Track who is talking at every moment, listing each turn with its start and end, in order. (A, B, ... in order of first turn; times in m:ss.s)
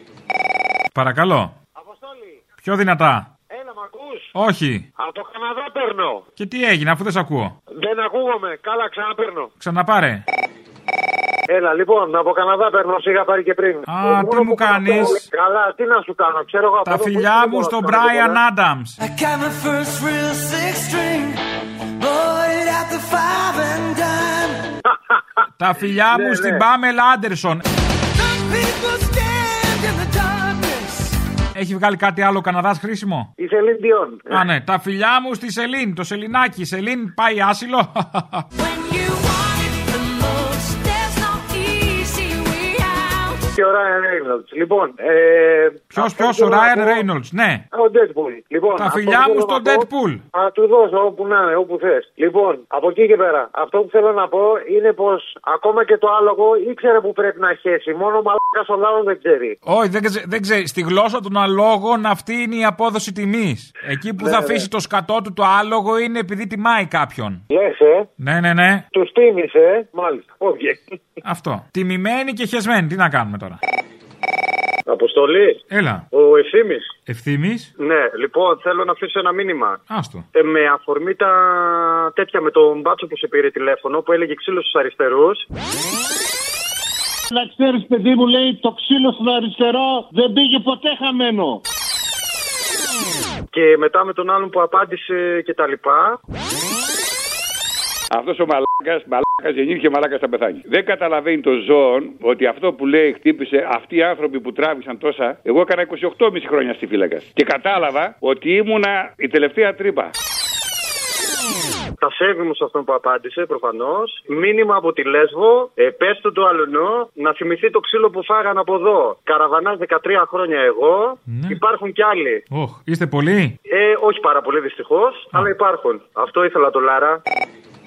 0:00.9-0:01.5 A
0:01.8-0:02.5 B
0:02.6-0:03.3 A
0:03.5-0:04.3 B
0:04.4-0:04.8 A
0:05.0-0:06.2 B
0:06.4-0:07.6 A
0:07.8-0:09.5 B
0:09.6-0:10.2 A
0:11.5-0:18.4 B
0:13.9-0:15.2 A
0:16.8-0:19.0 A
0:19.2-0:21.3 C
0:22.1-0:24.5 C
0:24.9-0:25.2 B
0:25.6-0:27.6 A
0:26.1-0:26.6 B
0:28.4-0:30.4 C
0:31.6-0:33.3 A
0:33.4-0:34.4 B
0:34.3-0:38.4 A
0:38.6-0:43.4 D
0:43.6-0:47.1 B
0:45.9-0:47.6 A
0:47.7-0:59.6 B
0:48.8-0:50.2 A
0:59.7-1:07.4 A
1:04.2-1:04.6 B
1:07.5-1:08.1 B
1:08.2-1:08.8 A
1:08.9-1:10.8 B
1:11.2-1:13.6 A
1:14.9-1:16.9 B
1:15.7-1:16.0 A
1:17.1-1:17.7 A
1:17.8-1:19.8 B
1:19.9-1:20.3 A
1:20.3-1:25.4 B
1:27.3-1:29.4 E
1:27.9-1:30.0 B
1:30.0-1:31.4 E
1:33.5-1:36.2 B
1:38.1-1:50.1 F
1:52.0-2:02.4 B
2:01.3-2:01.6 A
2:02.5-2:03.6 A
2:03.7-2:07.2 B